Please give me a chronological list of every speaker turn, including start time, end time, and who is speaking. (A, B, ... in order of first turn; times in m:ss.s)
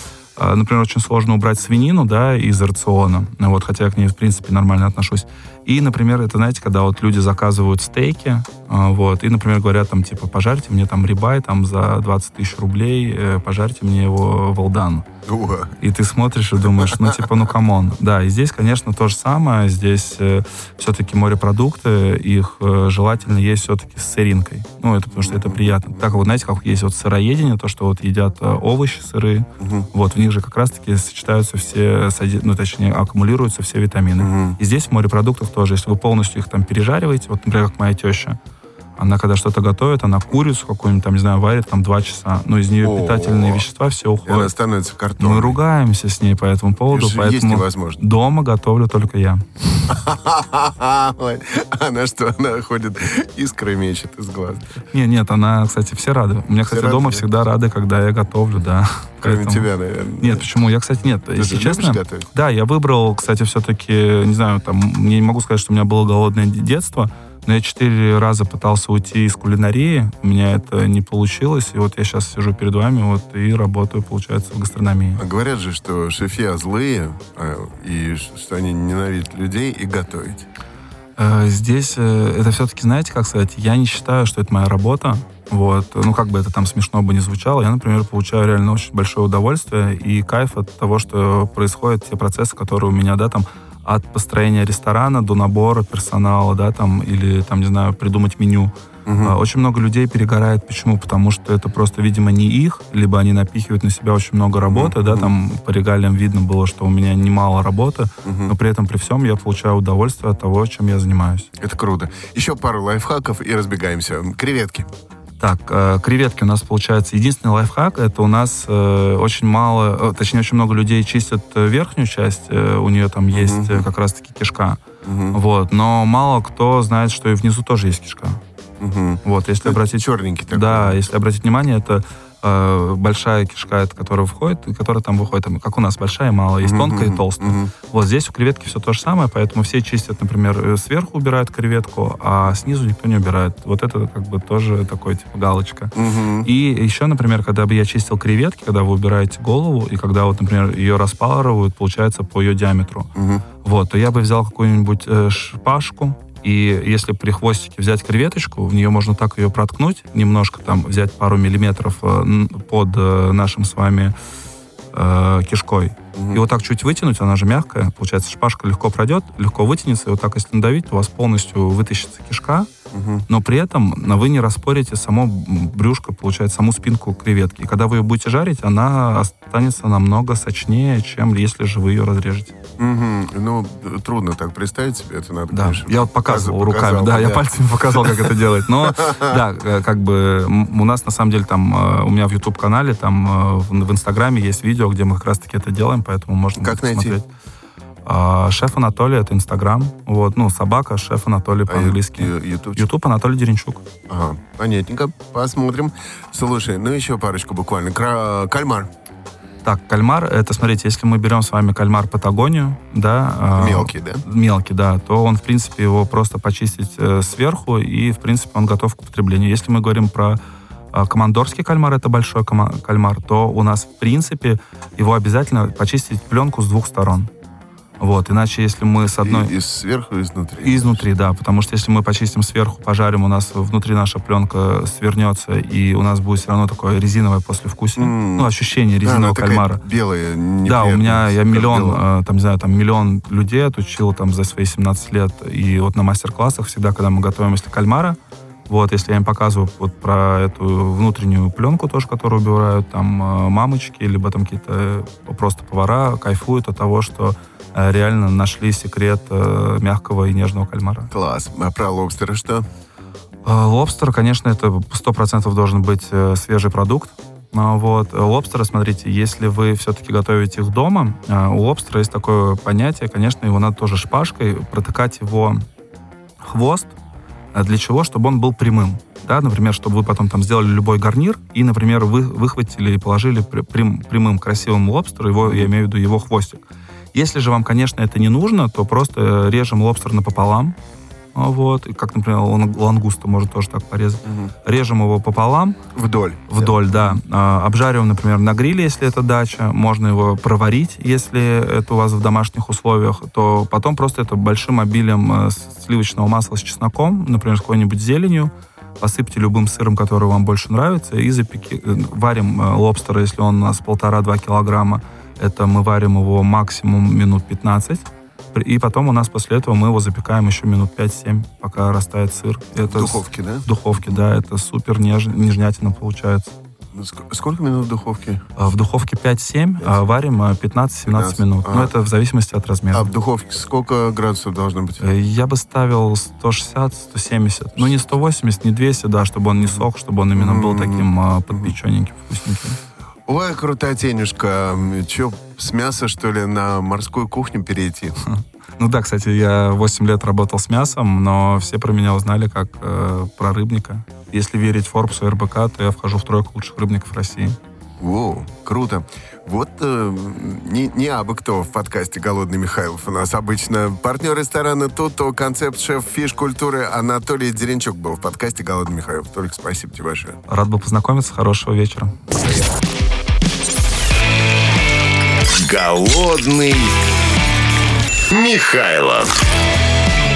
0:00.4-0:15.1 A
0:15.3-0:15.8 B
0:15.8-0:38.4 A
0:16.7-0:17.3 B
0:25.1-0:26.2 B
0:29.6-0:29.9 B
0:34.2-0:34.6 B
0:39.0-0:44.5 A
0:42.8-0:43.6 B
0:44.3-0:45.6 B
0:45.2-0:49.5 A
0:46.9-0:48.0 B
0:49.9-0:54.8 B
0:54.9-0:59.7 A
0:56.7-0:57.2 B
0:59.2-1:00.5 B
1:00.2-1:15.2 A
1:01.4-1:02.3 B
1:15.2-1:20.5 B
1:21.2-1:51.5 A
1:39.1-1:39.4 B
1:44.6-1:45.3 B
1:48.2-1:48.5 B
1:51.6-1:54.9 B
1:55.4-2:04.8 A
2:03.3-2:03.9 B
2:05.0-2:05.4 B
2:05.3-2:08.4 A
2:08.8-2:11.0 B
2:09.2-2:33.1 A
2:16.6-2:17.7 B
2:26.0-2:26.5 B
2:33.2-2:33.4 B
2:33.6-2:44.2 A
2:44.9-2:52.7 A
2:46.2-2:46.4 B
2:52.9-2:53.2 B
2:53.3-3:02.5 A
3:02.8-3:09.4 B
3:05.5-3:17.3 A
3:16.6-3:17.2 B
3:18.0-3:23.8 A
3:21.7-3:22.9 B
3:24.1-3:28.9 B
3:29.6-3:40.4 A
3:33.5-3:34.2 B
3:40.9-3:47.3 A
3:48.0-3:49.5 A
3:49.2-3:51.0 B
3:50.6-3:59.8 A
3:58.0-3:58.5 B
3:59.0-4:02.0 B
4:00.6-4:21.1 A
4:21.1-4:22.7 B
4:23.4-4:35.6 A
4:36.4-4:36.9 A
4:37.5-4:46.6 A
4:45.4-4:45.7 B
4:47.1-4:50.8 A
4:51.4-4:55.8 A
4:54.2-4:54.5 B
4:55.9-4:57.2 B
4:56.5-5:26.5 A
5:22.9-5:24.2 B
5:26.9-5:28.5 B
5:28.6-5:33.1 A
5:31.1-5:31.9 B
5:32.9-5:35.0 B
5:35.0-5:42.8 A
5:39.6-5:41.7 B
5:43.3-5:48.2 B
5:48.3-5:57.6 A
5:58.0-6:10.4 B
6:10.5-6:12.2 A
6:15.5-6:17.0 C
6:18.3-6:19.4 C